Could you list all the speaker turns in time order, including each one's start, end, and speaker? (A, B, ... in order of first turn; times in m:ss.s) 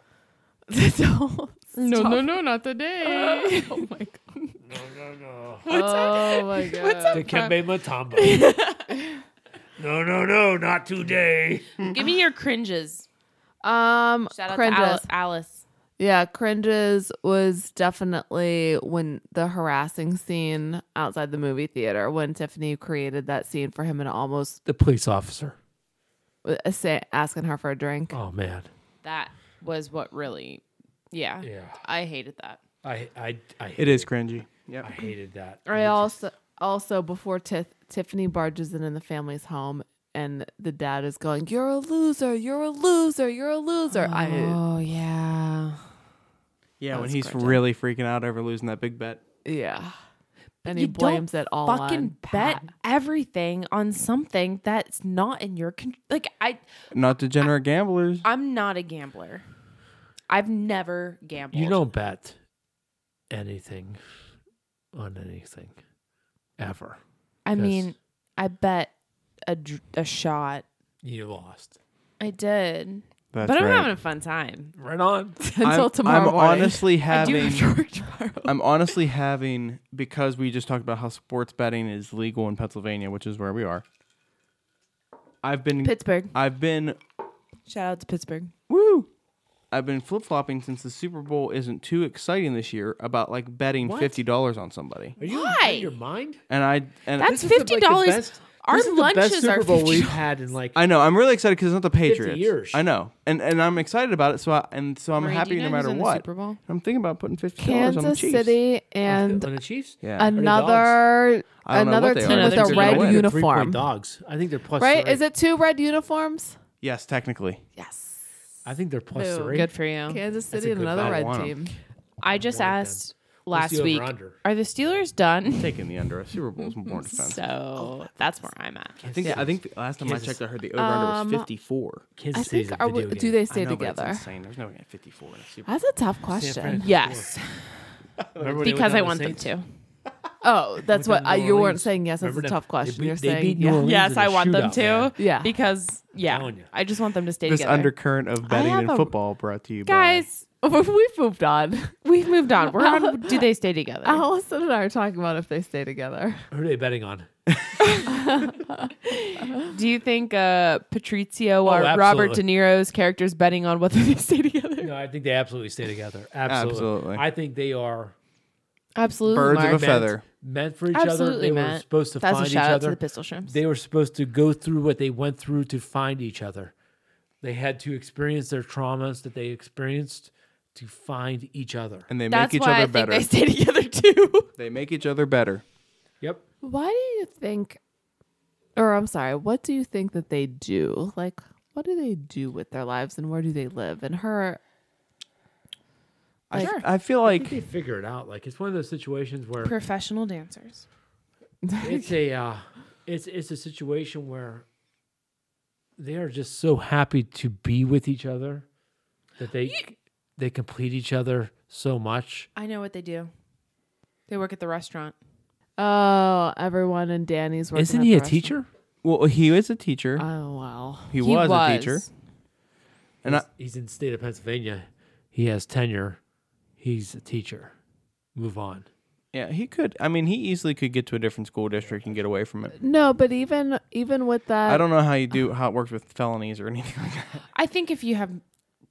0:00.7-0:02.3 A
0:01.7-0:04.6 B
0:03.0-0:04.0 A
0:04.6-0:05.7 C
0:05.6-0:07.6 B
0:05.6-0:07.3 A
0:07.1-0:08.5 C
0:08.1-0:08.9 B
0:09.8-0:11.8 C
0:11.8-0:13.1 B
0:13.6-0:15.1 A
0:14.3-0:15.6 B
0:16.0-0:24.6 A
0:24.6-0:25.6 C
0:26.4-0:28.2 A
0:28.1-0:28.7 C
0:29.0-0:32.6 B
0:31.4-0:31.8 C
0:32.8-0:34.1 C
0:33.8-0:34.9 D
0:34.8-0:36.1 C
0:35.7-0:44.6 A
0:43.9-0:45.9 B
0:46.8-0:49.2 D
0:46.9-0:47.6 B
0:49.4-0:49.9 A
0:50.6-0:52.7 A
0:50.6-0:56.6 B
0:56.9-0:58.2 D
0:58.2-0:59.4 B
1:00.3-1:01.8 B
1:01.5-1:02.4 C
1:03.3-1:04.0 C
1:04.9-1:05.8 C
1:06.6-1:07.0 C
1:07.4-1:08.9 B
1:07.6-1:07.9 C
1:09.4-1:10.6 B
1:11.0-1:11.8 C
1:12.2-1:14.7 B
1:13.3-1:13.9 D
1:14.8-1:15.4 C
1:15.4-1:17.6 A
1:15.6-1:17.7 D
1:17.1-1:18.5 B
1:18.4-1:23.8 D
1:25.4-1:27.0 D
1:25.8-1:26.3 B
1:27.7-1:28.5 B
1:28.7-1:29.1 D
1:29.7-1:35.2 D
1:33.8-1:34.2 C
1:35.2-1:36.4 C
1:35.2-1:35.9 B
1:36.5-1:37.4 D
1:37.2-1:40.2 B
1:37.2-1:40.8 C
1:40.7-1:48.5 D
1:42.0-1:42.8 C
1:45.2-1:46.6 B
1:47.6-1:49.5 A
1:49.0-1:51.0 C
1:50.0-1:50.4 D
1:50.2-1:53.8 A
1:51.6-1:53.2 D
1:52.2-1:53.2 B
1:52.9-1:55.2 C
1:54.8-1:56.6 A
1:56.8-1:57.6 D
1:57.8-1:58.2 A
1:58.6-1:59.7 C
1:59.1-2:01.7 A
1:59.5-2:00.2 B
2:00.5-2:01.4 C
2:00.9-2:01.6 D
2:02.2-2:05.7 B
2:02.3-2:04.4 C
2:05.6-2:07.4 D
2:06.6-2:09.0 B
2:09.0-2:10.4 C
2:09.1-2:12.0 D
2:10.8-2:11.5 A
2:12.2-2:13.4 C
2:12.3-2:14.2 A
2:13.5-2:15.7 D
2:15.6-2:16.9 A
2:16.3-2:17.3 C
2:16.8-2:17.9 B
2:18.3-2:18.7 D
2:18.3-2:19.5 C
2:18.6-2:19.7 B
2:20.4-2:23.9 A
2:20.9-2:25.1 C
2:23.8-2:27.9 B
2:25.2-2:25.5 A
2:26.2-2:26.7 C
2:27.4-2:30.2 D
2:28.4-2:29.1 B
2:29.8-2:30.4 B
2:30.6-2:32.0 A
2:32.0-2:34.2 B
2:32.7-2:33.4 A
2:34.0-2:36.4 A
2:36.5-2:37.3 C
2:37.8-2:38.1 B
2:38.1-2:38.9 A
2:39.1-2:44.9 B
2:41.6-2:42.4 C
2:44.8-2:48.1 C
2:46.5-2:47.2 D
2:49.0-2:50.1 B
2:49.3-2:50.2 D
2:50.4-2:56.7 C
2:50.9-2:53.6 B
2:57.4-3:02.1 C
3:02.1-3:03.3 D
3:02.3-3:04.5 B
3:04.6-3:05.6 D
3:06.6-3:07.8 A
3:08.8-3:14.6 A
3:16.5-3:17.6 D
3:16.5-3:16.8 B
3:17.2-3:19.7 C
3:19.6-3:20.8 B
3:21.6-3:22.1 A
3:21.8-3:24.6 C
3:26.0-3:28.6 C
3:29.4-3:32.5 C
3:32.5-3:33.3 B
3:34.3-3:35.1 B
3:35.8-3:38.5 A
3:37.7-3:38.7 C
3:39.0-3:40.2 D
3:40.2-3:41.2 A
3:41.1-3:42.0 D
3:41.2-3:42.1 B
3:43.2-3:46.2 C
3:46.8-3:47.7 C
3:48.4-3:48.9 C
3:49.3-3:52.8 D
3:52.8-3:54.9 A
3:54.6-3:57.4 D
3:57.5-3:58.4 B